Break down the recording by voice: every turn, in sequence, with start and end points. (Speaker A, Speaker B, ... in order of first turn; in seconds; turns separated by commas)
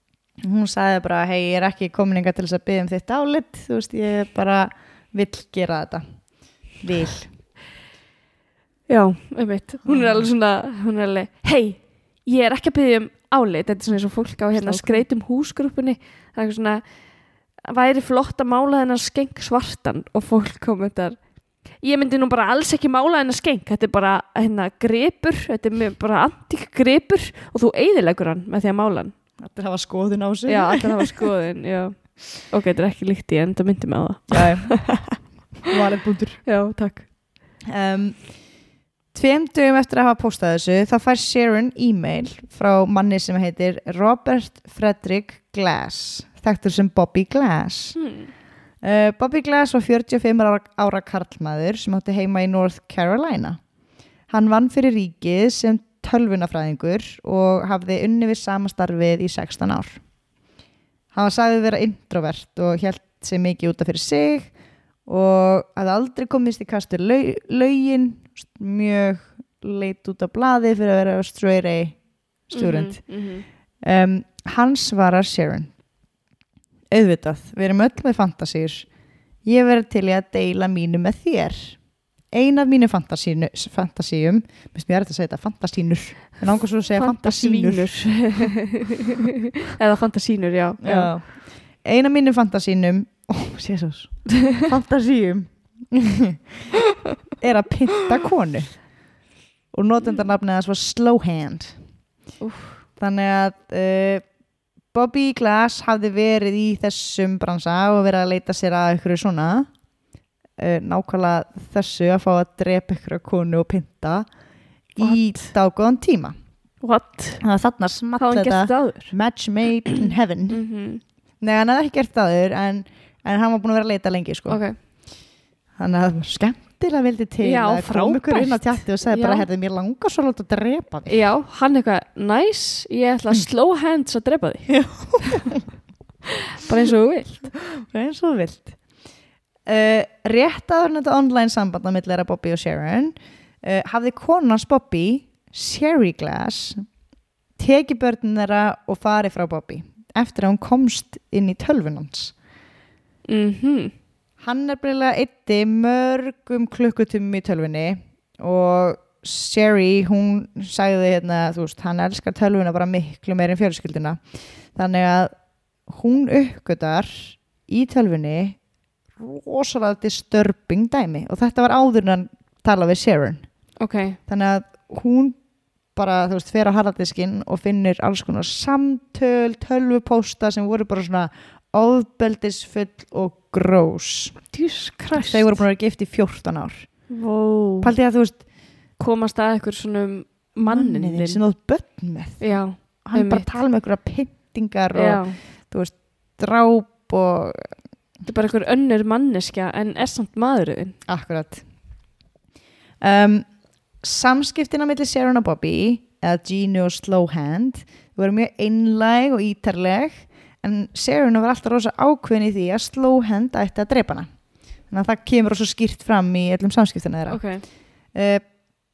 Speaker A: 0.4-6.0, Speaker A: 6.8-7.3, Speaker B: 8.9-16.8, Speaker A: 9.8-10.3, Speaker A: 14.5-15.0, Speaker B: 17.6-21.2, Speaker B: 21.8-29.1, Speaker A: 29.4-31.3, Speaker B: 30.5-35.2, Speaker A: 34.3-34.7, Speaker A: 35.7-36.4, Speaker B: 36.5-37.0, Speaker A: 37.7-38.2, Speaker A: 39.1-48.0, Speaker B: 48.0-48.3, Speaker A: 48.8-53.6, Speaker A: 54.3-60.0, Speaker A: 61.1-64.5, Speaker A: 65.0-72.0, Speaker A: 72.5-73.0, Speaker B: 72.5-73.4, Speaker A: 73.8-75.7, Speaker A: 76.9-78.9, Speaker A: 79.4-81.8, Speaker A: 82.3-88.5, Speaker B: 87.0-91.1, Speaker A: 90.8-91.3, Speaker A: 91.8-96.7, Speaker B: 94.3-94.6, Speaker A: 97.4-98.7, Speaker A: 99.7-101.8, Speaker B: 102.4-102.8, Speaker A: 103.0-104.2, Speaker A: 104.9-109.7, Speaker A: 110.6-114.3, Speaker A: 114.9-116.3, Speaker B: 115.0-115.4, Speaker B: 116.8-117.4, Speaker A: 117.4-120.6, Speaker B: 118.2-119.1, Speaker B: 120.5-121.0, Speaker A: 121.4-124.6, Speaker B: 124.5-124.8, Speaker A: 125.8-131.2, Speaker B: 127.4-129.4, Speaker B: 131.1-134.7, Speaker A: 134.7-135.7, Speaker B: 136.3-137.5, Speaker A: 137.5-138.8, Speaker A: 139.7-146.8, Speaker A: 147.6-152.3, Speaker B: 153.3-153.9, Speaker A: 154.4-164.2, Speaker A: 164.7-165.3, Speaker A: 165.9-168.6, Speaker A: 169.2-173.4, Speaker B: 173.8-174.2, Speaker A: 174.3-175.4, Speaker A: 175.9-184.4, Speaker B: 184.5-185.6, Speaker A: 185.1-186.9, Speaker B: 187.1-187.9, Speaker A: 187.8-188.4, Speaker B: 189.0-191.4, Speaker A: 190.6-192.4, Speaker B: 192.4-193.5, Speaker A: 193.0-197.7, Speaker B: 194.9-195.4, Speaker B: 198.2-201.0, Speaker A: 201.1-201.6, Speaker A: 203.0-203.4, Speaker A: 204.0-214.3, Speaker A: 214.9-217.4, Speaker B: 217.3-217.6, Speaker A: 218.1-218.4